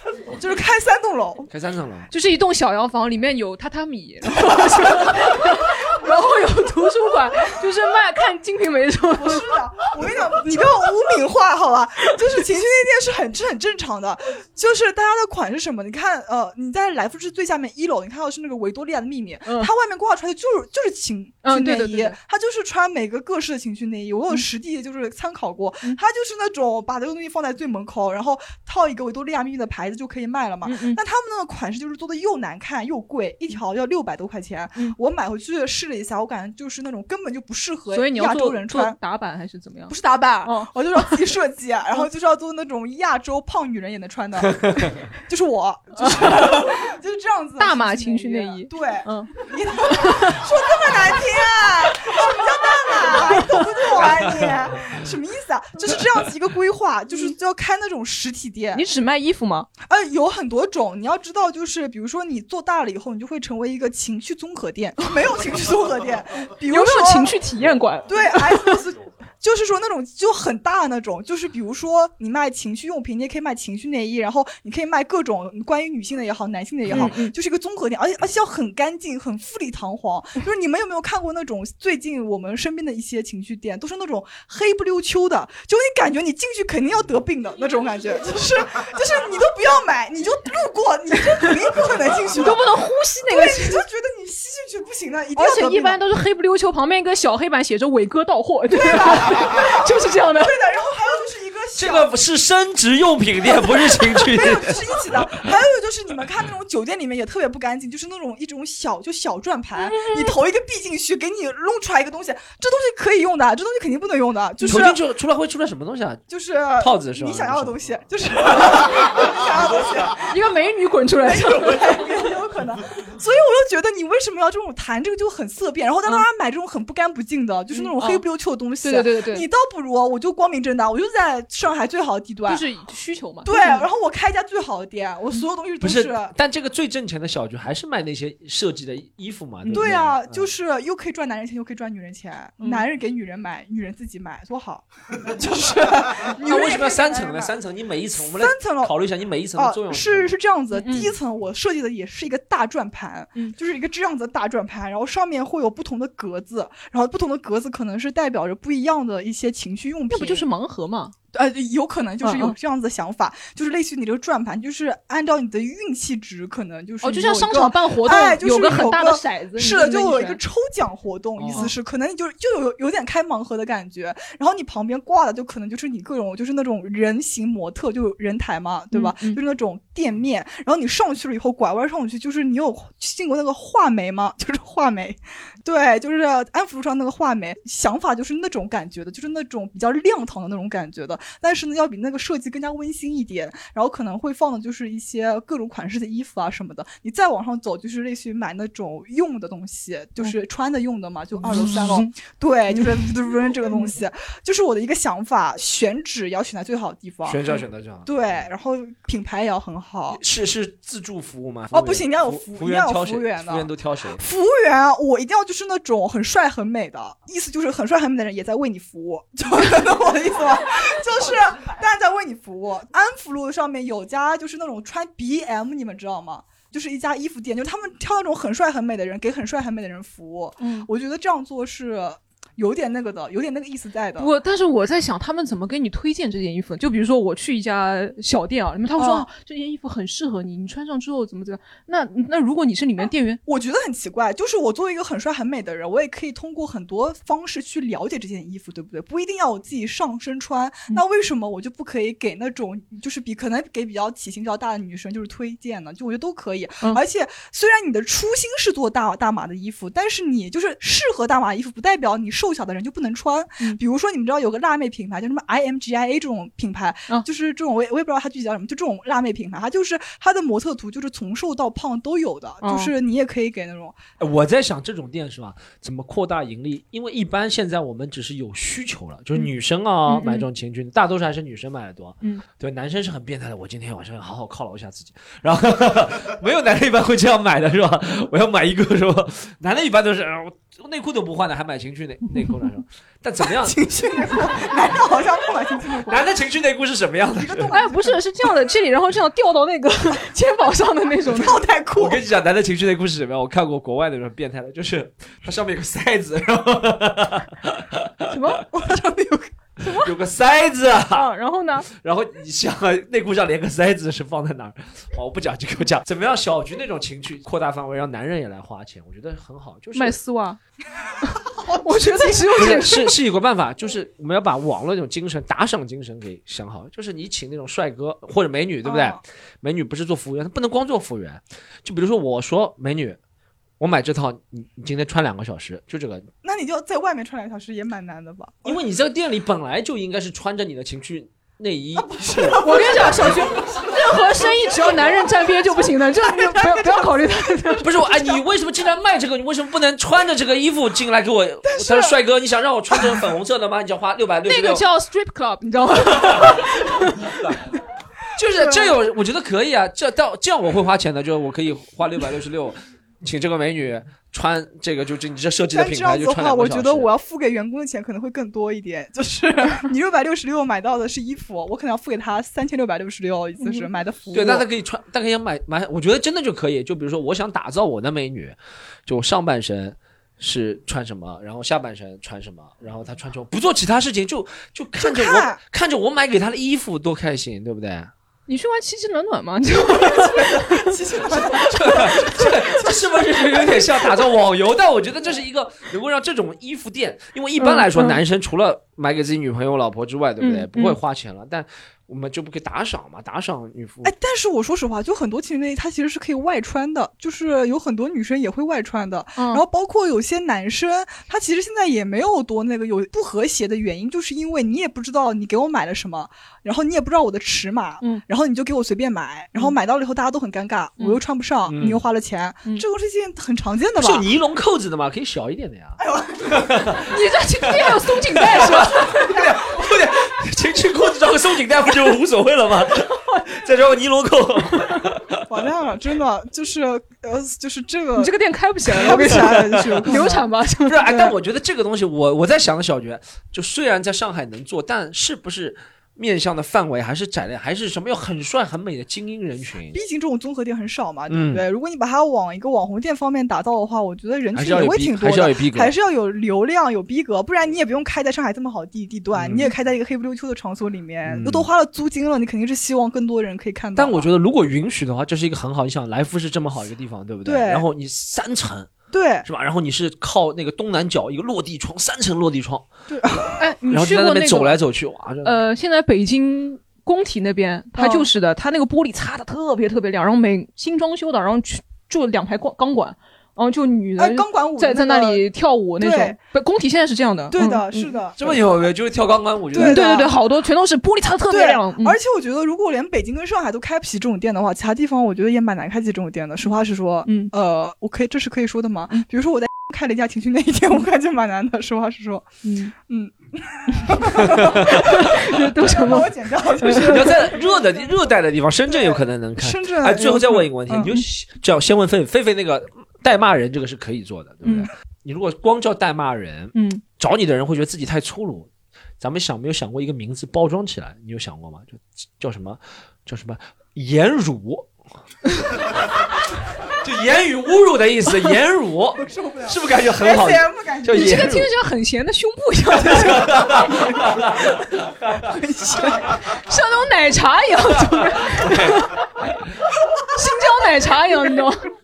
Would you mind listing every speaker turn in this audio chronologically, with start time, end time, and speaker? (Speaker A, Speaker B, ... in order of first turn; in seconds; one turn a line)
Speaker A: 0.3-1.5
Speaker B: 1.5-2.1
Speaker C: 2.1-9.4
Speaker A: 9.1-39.0
Speaker C: 21.4-22.1
Speaker C: 30.6-31.0
Speaker C: 37.9-41.2
Speaker A: 39.9-58.8
Speaker C: 46.0-46.7
Speaker C: 47.6-49.4
Speaker C: 49.9-50.5
Speaker C: 53.0-54.0
Speaker C: 57.1-57.3
Speaker C: 58.7-59.7
Speaker A: 59.8-67.3
Speaker C: 66.7-68.8
Speaker A: 68.1-92.6
Speaker C: 76.9-77.3
Speaker C: 92.3-93.8
Speaker A: 93.2-96.0
Speaker C: 95.3-100.6
Speaker A: 98.7-102.1
Speaker B: 101.7-104.8
Speaker A: 103.9-115.0
Speaker C: 109.8-110.3
Speaker C: 114.6-114.8
Speaker B: 114.7-116.2
Speaker A: 116.3-120.3
Speaker B: 116.8-117.8
Speaker C: 120.3-122.0
Speaker A: 121.2-132.6
Speaker C: 127.7-128.2
Speaker C: 128.8-129.5
Speaker C: 132.4-133.9
Speaker A: 133.4-136.3
Speaker B: 135.8-140.5
Speaker A: 139.7-147.5
Speaker C: 142.6-142.8
Speaker B: 146.4-150.4
Speaker A: 148.2-160.5
Speaker C: 150.7-151.2
Speaker C: 160.1-161.1
Speaker A: 161.3-207.4
Speaker C: 162.2-162.6
Speaker C: 167.0-170.4
Speaker C: 171.5-171.7
Speaker C: 178.9-179.4
Speaker C: 201.4-202.1
Speaker C: 202.7-203.1
Speaker B: 207.2-208.5
Speaker A: 208.1-210.2
Speaker B: 210.1-214.2
Speaker A: 211.7-234.3
Speaker C: 230.6-230.9
Speaker C: 234.2-243.4
Speaker A: 238.9-239.2
Speaker A: 243.4-274.0
Speaker C: 272.6-272.9
Speaker B: 274.2-293.8
Speaker C: 280.1-280.4
Speaker A: 293.5-296.2
Speaker B: 296.1-297.8
Speaker A: 297.4-298.1
Speaker C: 297.7-301.6
Speaker A: 301.3-302.2
Speaker B: 302.0-308.1
Speaker C: 308.3-308.6
Speaker A: 308.7-310.0
Speaker B: 310.0-311.3
Speaker C: 311.1-311.9
Speaker B: 311.9-320.2
Speaker C: 319.9-320.6
Speaker A: 321.5-322.7
Speaker C: 321.8-323.1
Speaker B: 322.6-333.2
Speaker A: 328.8-329.2
Speaker B: 333.8-336.3
Speaker A: 336.4-338.8
Speaker B: 338.6-343.3
Speaker A: 342.1-345.2
Speaker C: 342.6-347.9
Speaker A: 346.2-348.4
Speaker B: 347.8-354.8
Speaker A: 351.6-352.2
Speaker C: 354.4-357.3
Speaker B: 358.4-367.1
Speaker A: 358.6-358.9
Speaker A: 365.7-374.7
Speaker C: 373.6-373.9
Speaker B: 374.3-388.1
Speaker A: 385.0-385.6
Speaker C: 388.5-390.9
Speaker A: 389.9-394.1
Speaker B: 391.6-404.1
Speaker C: 397.6-398.2
Speaker C: 400.4-401.0
Speaker A: 404.0-424.3
Speaker C: 409.4-409.6
Speaker B: 421.7-422.0
Speaker B: 424.0-427.0
Speaker A: 426.0-426.8
Speaker C: 427.1-429.2
Speaker B: 427.6-435.4
Speaker A: 435.5-438.3
Speaker C: 438.1-441.2
Speaker A: 438.9-440.5
Speaker B: 439.2-440.2
Speaker B: 440.8-450.0
Speaker A: 449.9-464.3
Speaker B: 451.3-451.6
Speaker B: 454.5-455.9
Speaker B: 459.3-459.7
Speaker B: 461.2-461.7
Speaker B: 463.9-468.9
Speaker A: 467.4-467.9
Speaker A: 469.1-469.5
Speaker B: 469.4-472.9
Speaker A: 473.1-473.6
Speaker B: 473.4-475.6
Speaker C: 473.6-474.8
Speaker C: 475.4-488.2
Speaker A: 478.0-478.3
Speaker A: 484.2-485.4
Speaker A: 486.0-486.4
Speaker A: 487.5-488.6
Speaker B: 488.4-490.0
Speaker A: 489.7-490.4
Speaker C: 489.8-492.2
Speaker A: 491.5-502.5
Speaker C: 497.2-497.5
Speaker C: 502.6-502.9
Speaker A: 503.0-508.1
Speaker B: 504.4-504.9
Speaker C: 504.9-507.3
Speaker B: 507.0-518.7
Speaker A: 508.9-511.1
Speaker C: 516.7-517.0
Speaker B: 519.2-524.9
Speaker B: 527.0-531.7
Speaker A: 529.2-531.5
Speaker C: 531.1-533.8
Speaker B: 533.1-535.5
Speaker A: 533.8-534.5
Speaker A: 535.4-536.4
Speaker C: 536.5-539.2
Speaker B: 538.1-539.1
Speaker C: 540.3-541.9